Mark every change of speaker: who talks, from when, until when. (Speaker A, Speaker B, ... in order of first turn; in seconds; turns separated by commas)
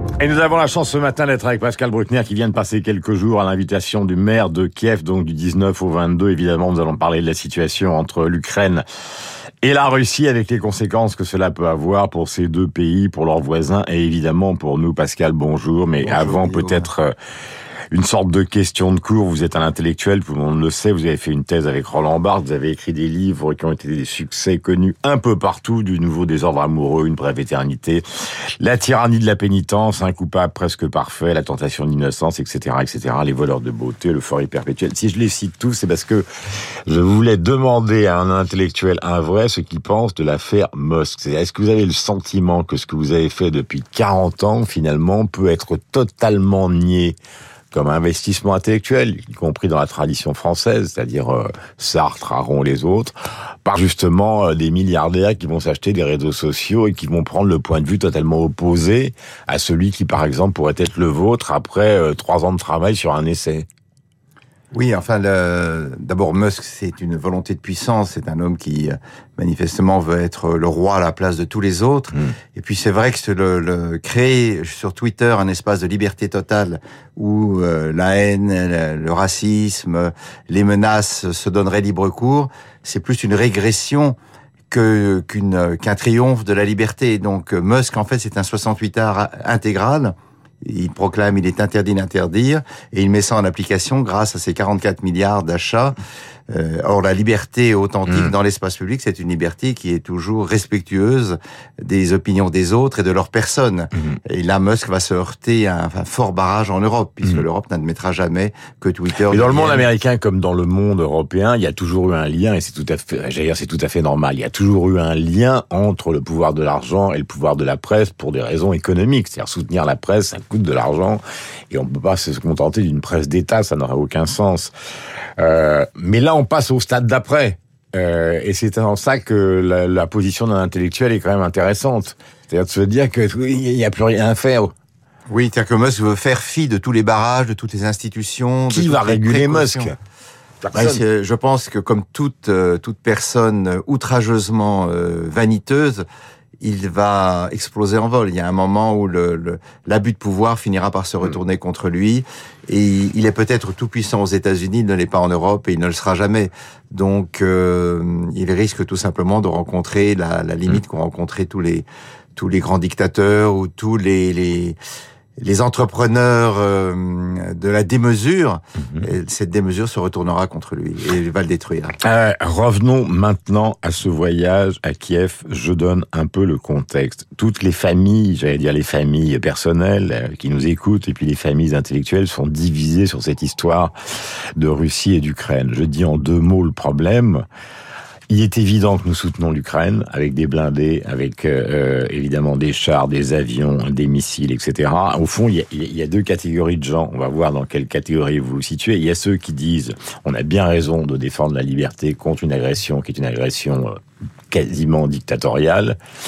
Speaker A: 0.2-8.8, Speaker A: 9.6-17.1, Speaker B: 16.0-16.9, Speaker A: 17.9-28.0, Speaker A: 28.6-36.3, Speaker A: 36.9-47.2, Speaker A: 47.7-63.7, Speaker B: 64.7-84.2, Speaker B: 84.7-96.0, Speaker B: 96.5-109.9, Speaker A: 98.1-98.3, Speaker A: 109.2-124.7, Speaker A: 125.4-134.7, Speaker B: 135.3-139.9, Speaker A: 138.7-140.0, Speaker A: 140.6-141.0, Speaker B: 140.7-146.1, Speaker B: 146.6-164.8, Speaker B: 165.4-172.0, Speaker A: 172.0-183.9, Speaker A: 184.6-187.4, Speaker A: 188.3-204.0, Speaker A: 204.5-206.0